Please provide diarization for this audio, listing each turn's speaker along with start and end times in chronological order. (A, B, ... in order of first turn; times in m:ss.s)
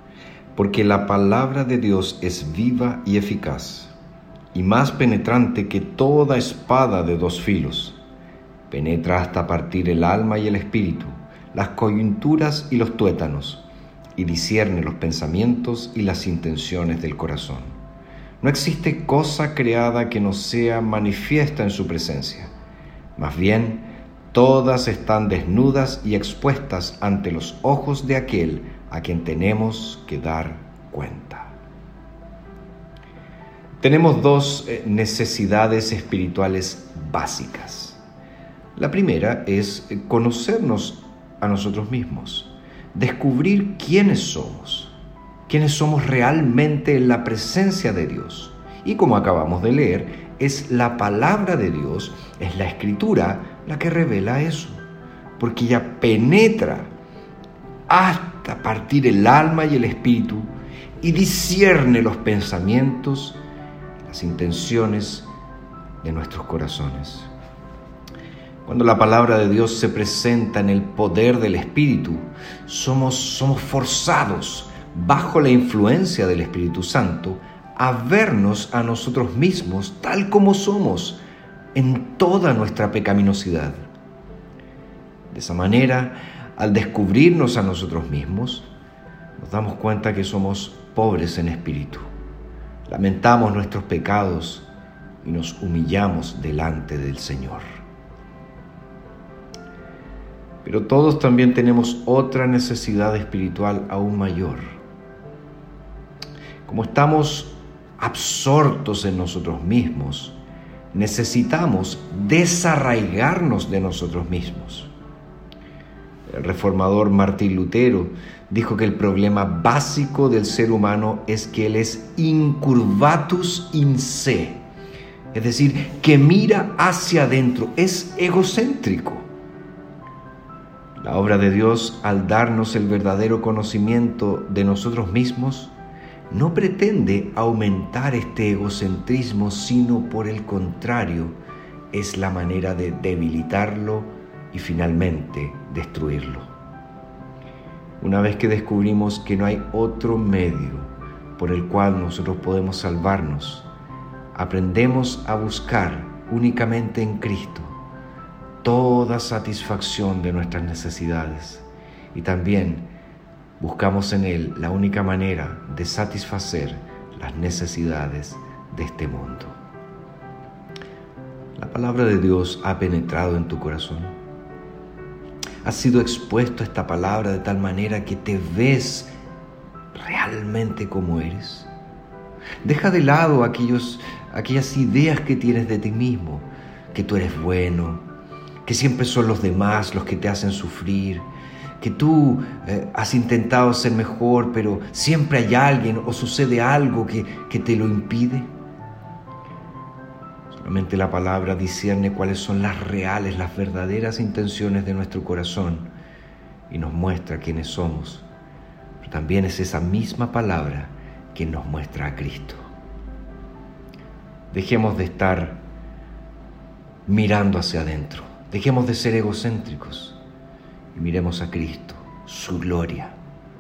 0:00.6-0:03.9 A
0:04.5-0:08.0 A
0:08.7-0:13.6 A
0:14.2-0:17.8 A
0:18.4-0:22.5 A
0:23.2-0:31.5 A
0:33.8-0:38.0 A
0:38.8-0:45.0 A
0:45.5-0:54.8 A
0:55.4-0:56.9 A
0:57.9-1:00.5 A
1:01.0-1:03.4 A
1:04.1-1:05.3 A
1:06.0-1:07.3 A
1:08.7-1:21.2 A
1:21.7-1:23.8 A
1:25.3-1:28.7 A
1:29.4-1:32.0 A
1:32.9-1:34.7 A
1:35.2-1:37.6 A
1:40.6-1:44.7 A
1:46.7-1:50.4 A
1:50.9-1:54.9 A
1:56.3-2:04.6 A
2:05.3-2:09.2 A
2:11.0-2:15.7 A
2:16.3-2:21.4 A
2:21.9-2:26.5 A
2:28.0-2:33.7 A
2:34.4-2:37.8 A
2:38.6-2:42.9 A
2:43.6-2:49.6 A
2:51.6-2:54.1 A
2:55.6-2:59.1 A
2:59.9-3:01.7 A
3:02.6-3:08.0 A
3:08.6-3:11.3 A
3:11.8-3:18.5 A
3:20.6-3:25.9 A
3:26.7-3:28.3 A
3:29.0-3:32.6 A
3:34.5-3:35.6 A
3:37.1-3:40.2 A
3:40.9-3:43.2 A